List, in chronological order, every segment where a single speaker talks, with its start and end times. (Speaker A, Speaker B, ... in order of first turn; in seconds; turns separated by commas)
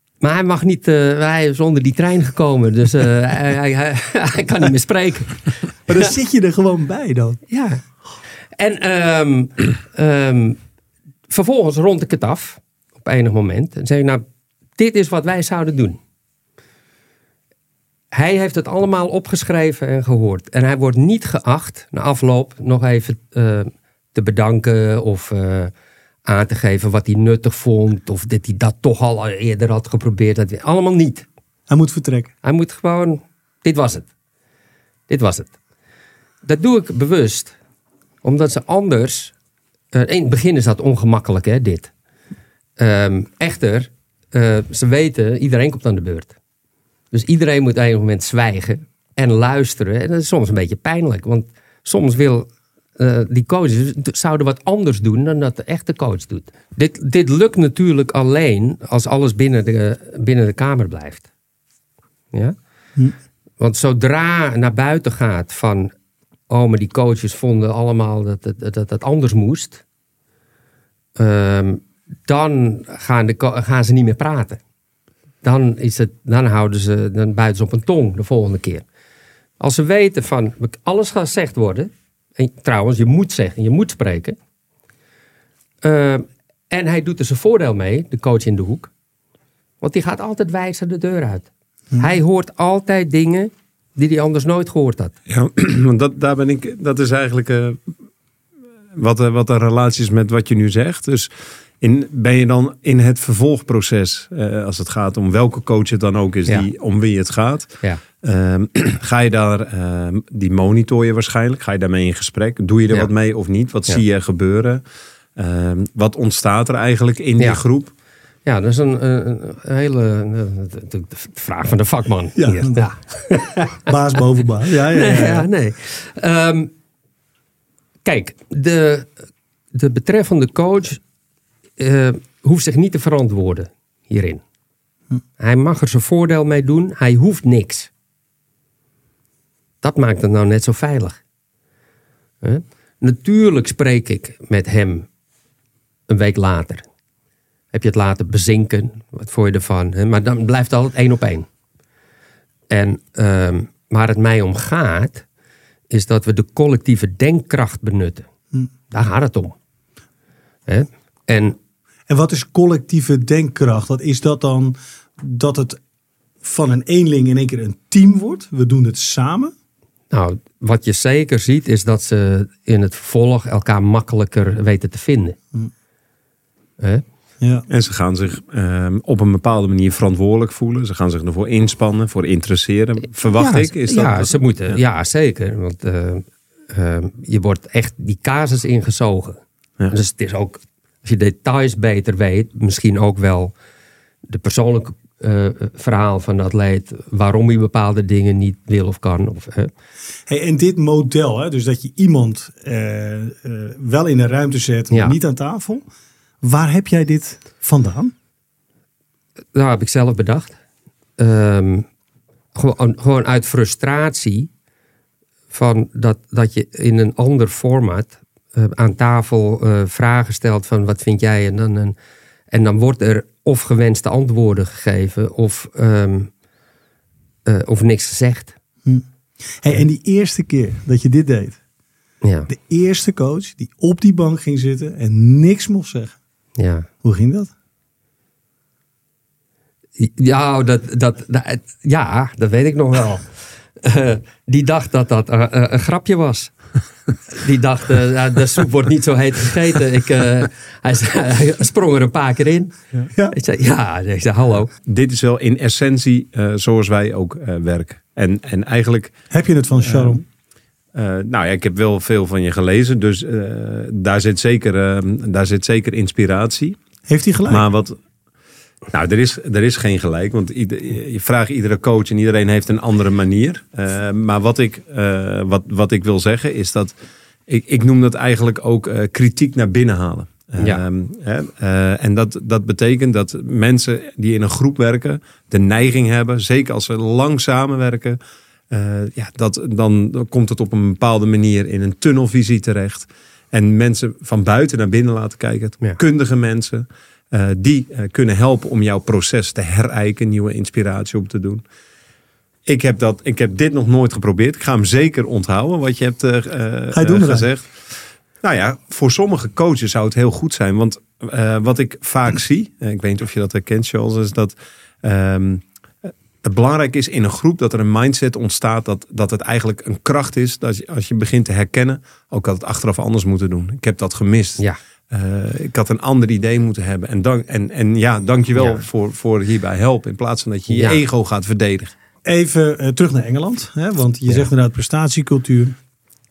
Speaker A: 0.2-6.1, Speaker B: 5.9-7.4, Speaker A: 7.5-7.8, Speaker A: 8.6-10.6, Speaker A: 11.3-14.2, Speaker A: 14.8-16.0, Speaker A: 18.1-25.7, Speaker A: 26.3-31.3, Speaker B: 31.7-32.3, Speaker A: 32.4-34.1, Speaker A: 35.1-35.5, Speaker A: 36.5-37.5, Speaker A: 38.2-39.3, Speaker A: 39.9-41.9, Speaker A: 42.8-46.3, Speaker A: 47.1-61.3, Speaker A: 63.6-65.9, Speaker A: 66.5-69.8, Speaker A: 71.2-74.6, Speaker A: 75.4-78.8, Speaker A: 79.6-84.4, Speaker A: 85.8-88.9, Speaker A: 89.8-95.1, Speaker C: 95.3-97.8, Speaker C: 99.0-114.8, Speaker C: 115.4-117.9, Speaker A: 118.5-123.8, Speaker B: 122.4-125.5, Speaker A: 124.9-126.7, Speaker A: 128.1-129.1, Speaker A: 129.7-131.0, Speaker A: 131.8-134.4, Speaker A: 135.4-137.9, Speaker A: 139.8-141.2, Speaker A: 142.4-145.1, Speaker A: 146.1-146.8, Speaker A: 147.7-151.5, Speaker A: 152.7-155.2, Speaker A: 155.9-158.3, Speaker A: 158.9-159.6, Speaker A: 160.7-161.6, Speaker B: 162.1-165.8, Speaker B: 166.4-169.5, Speaker A: 170.1-175.4, Speaker B: 177.4-177.7, Speaker C: 177.7-184.8, Speaker A: 183.4-189.4, Speaker A: 189.9-193.5, Speaker A: 194.3-199.7, Speaker B: 200.3-205.8, Speaker B: 206.4-208.1, Speaker A: 209.5-210.6, Speaker A: 211.2-211.8, Speaker A: 212.5-214.5, Speaker A: 215.5-221.9, Speaker A: 222.5-226.3, Speaker A: 227.5-228.5, Speaker B: 229.6-231.6, Speaker A: 232.2-232.5, Speaker B: 232.5-236.2, Speaker A: 236.6-236.9, Speaker B: 237.0-237.5, Speaker A: 240.0-246.6, Speaker A: 247.3-252.8, Speaker B: 252.9-253.4, Speaker A: 253.3-254.7, Speaker C: 254.9-259.2, Speaker B: 259.3-260.2, Speaker C: 259.8-260.2, Speaker C: 260.9-266.8, Speaker B: 267.1-267.6, Speaker C: 267.5-268.0, Speaker C: 268.9-276.9, Speaker C: 277.5-288.2, Speaker C: 288.7-301.6, Speaker C: 302.7-307.7, Speaker B: 306.9-307.5, Speaker C: 308.4-331.9, Speaker A: 328.6-328.8, Speaker A: 330.7-331.0, Speaker B: 332.2-335.8